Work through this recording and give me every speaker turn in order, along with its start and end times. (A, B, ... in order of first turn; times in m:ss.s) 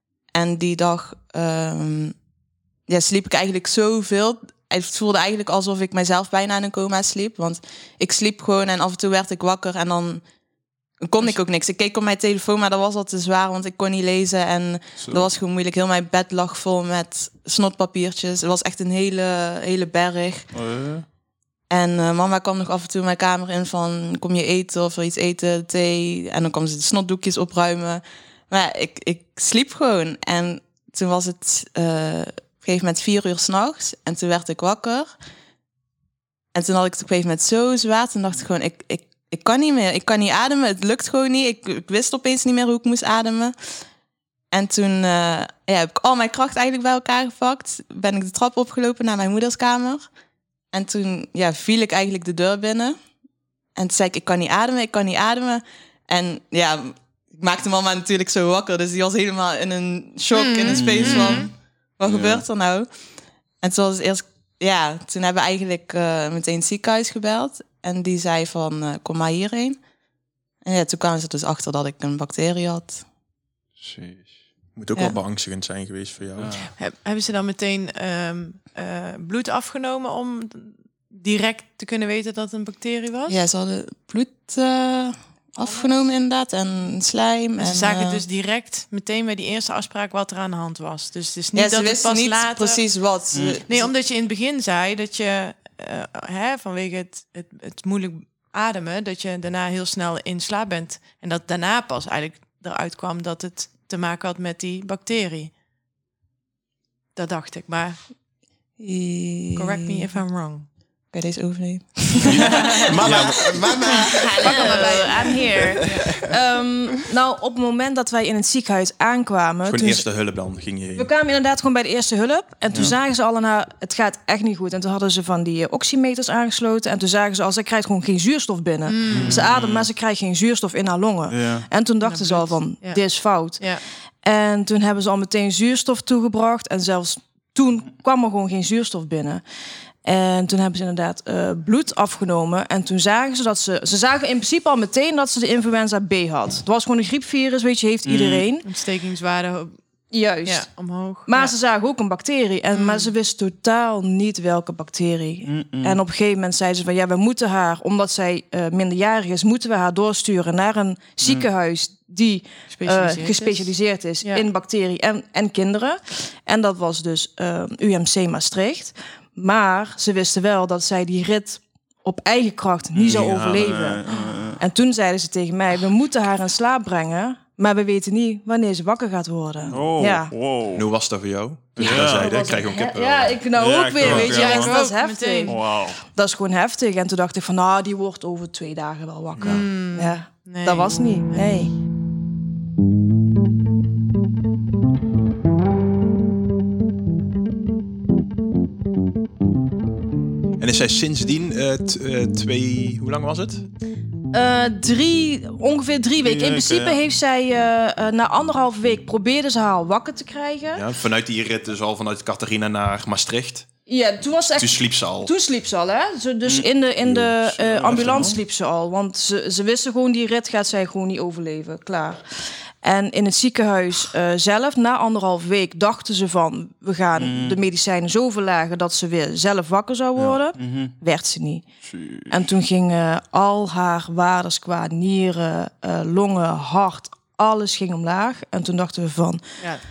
0:00.3-0:02.2 A
0:02.9-0:10.2 A
0:11.0-0:20.5 A
0:15.0-0:15.3 B
0:20.5-0:21.0 B
0:21.7-0:35.1 A
0:36.5-0:43.5 A
0:44.5-0:50.1 A
0:50.7-0:53.1 A
0:53.7-1:02.9 A
1:00.3-1:01.5 C
1:00.7-1:02.4 B
1:03.6-1:09.8 A
1:10.6-1:13.0 A
1:13.8-1:14.3 B
1:14.7-1:16.7 D
1:16.4-1:16.6 B
1:16.8-1:23.4 C
1:23.3-1:28.2 A
1:27.6-1:32.8 C
1:31.5-1:33.9 A
1:33.3-1:33.6 B
1:33.7-1:45.5 C
1:47.1-1:48.0 C
1:48.8-1:50.1 A
1:49.6-1:50.7 C
1:51.0-1:55.2 A
1:52.2-1:53.8 D
1:52.9-1:56.3 B
1:54.4-1:55.9 C
1:54.4-2:00.4 E
1:59.6-2:01.1 D
2:00.9-2:19.4 E
2:08.9-2:09.4 C
2:09.1-2:09.9 D
2:11.3-2:11.6 B
2:12.0-2:13.8 C
2:20.0-2:28.6 E
2:28.0-2:28.4 B
2:28.6-2:29.8 C
2:30.1-2:30.7 E
2:30.4-2:31.5 C
2:31.2-2:54.0 E
2:32.7-2:33.1 C
2:35.4-2:36.0 B
2:42.7-2:43.7 C
2:53.0-2:53.8 D
2:53.7-2:54.6 B
2:54.1-2:54.4 C
2:54.6-3:00.3 E
2:59.7-3:00.8 B
3:00.7-3:03.4 D
3:01.8-3:11.7 E
3:01.8-3:02.4 B
3:03.5-3:04.7 B
3:04.0-3:04.7 D
3:04.3-3:05.6 C
3:05.4-3:06.0 B
3:09.4-3:09.6 D
3:09.4-3:11.4 C
3:20.6-3:23.7 D
3:24.3-3:30.8 E
3:26.2-3:27.0 B
3:30.7-3:33.9 D
3:33.9-3:51.7 E
3:34.6-3:35.3 D
3:37.0-3:38.4 D
3:37.9-3:38.3 B
3:47.2-3:47.6 B
3:50.5-3:50.9 B
3:51.8-3:52.4 B
3:52.3-3:59.6 E